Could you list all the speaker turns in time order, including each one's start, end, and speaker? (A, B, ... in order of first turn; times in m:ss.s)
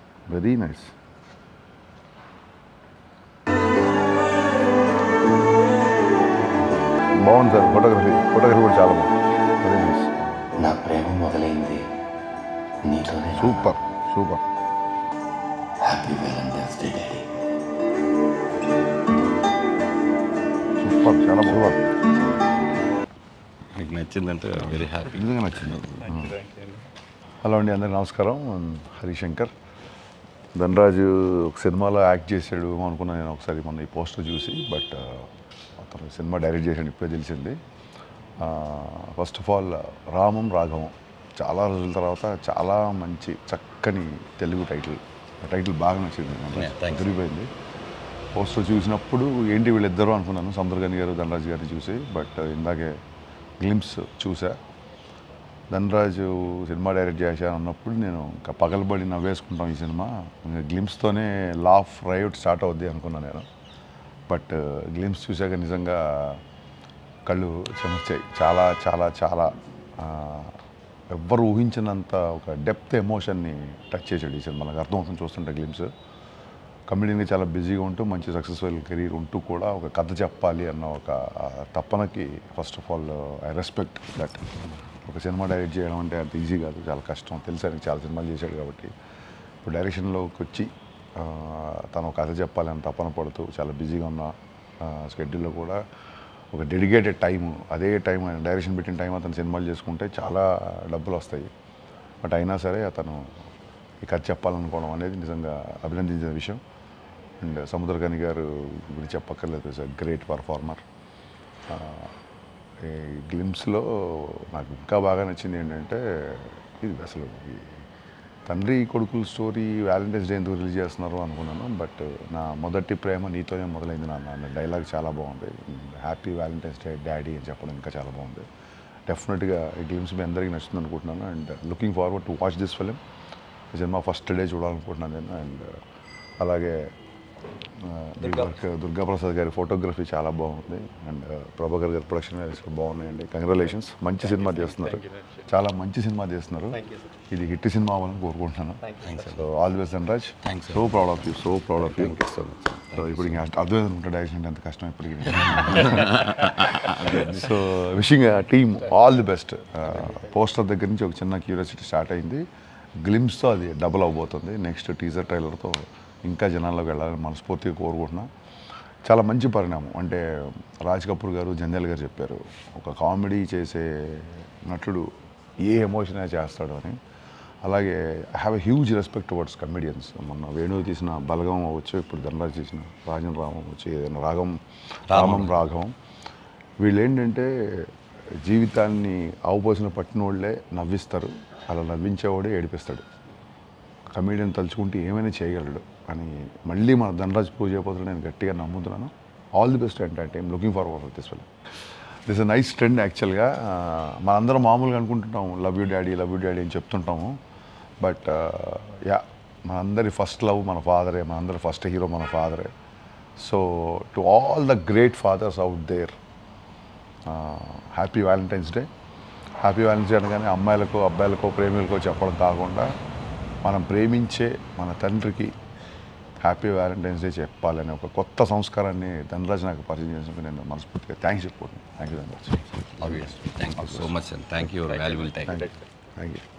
0:00.3-0:00.9 A
0:07.2-0:10.1 A
0:10.6-0:11.9 B
0:12.8-0:13.7 B
0:13.3-0:14.4 A
0:15.8-0:17.0 C
0:15.8-0:17.3 B
0:20.8-0:21.9 A
0:23.7-0:26.1 C
0:25.0-0:26.4 A
0:26.1-0:26.8 B
0:27.4-0:29.5 A
0:30.5-0:37.6 A
0:38.4-0:47.5 A
0:46.5-0:47.1 C
0:48.3-0:52.9 A
0:53.6-0:54.6 A
0:55.7-1:03.5 A
1:04.3-1:06.4 A
1:07.2-1:10.6 A
1:11.1-1:15.9 A
1:16.9-1:28.9 A
1:29.6-1:35.8 A
1:36.5-1:41.5 A
1:42.2-1:43.2 A
1:44.0-1:46.6 A
1:47.4-1:50.8 A
1:51.7-1:52.1 A
1:52.8-1:57.8 A
1:58.5-2:08.4 A
2:09.1-2:13.0 A
2:13.7-2:15.8 A
2:16.4-2:16.8 A
2:17.8-2:42.4 A
2:24.2-2:25.4 B
2:29.0-2:29.5 C
2:30.4-2:31.0 C
2:31.8-2:33.4 C
2:35.6-2:37.2 C
2:43.0-2:48.3 A
2:49.0-2:55.1 A
2:55.6-2:57.0 A
2:57.6-3:05.9 A
3:05.1-3:05.6 C
3:06.8-3:13.0 A
3:14.1-3:21.5 A
3:22.2-3:27.4 A
3:28.0-3:32.7 A
3:33.4-3:36.2 A
3:37.2-3:38.9 A
3:39.6-3:42.9 A
3:43.6-3:45.5 A
3:46.4-3:54.1 A
3:52.9-3:55.6 C
3:54.9-3:55.6 B
3:55.4-3:56.4 A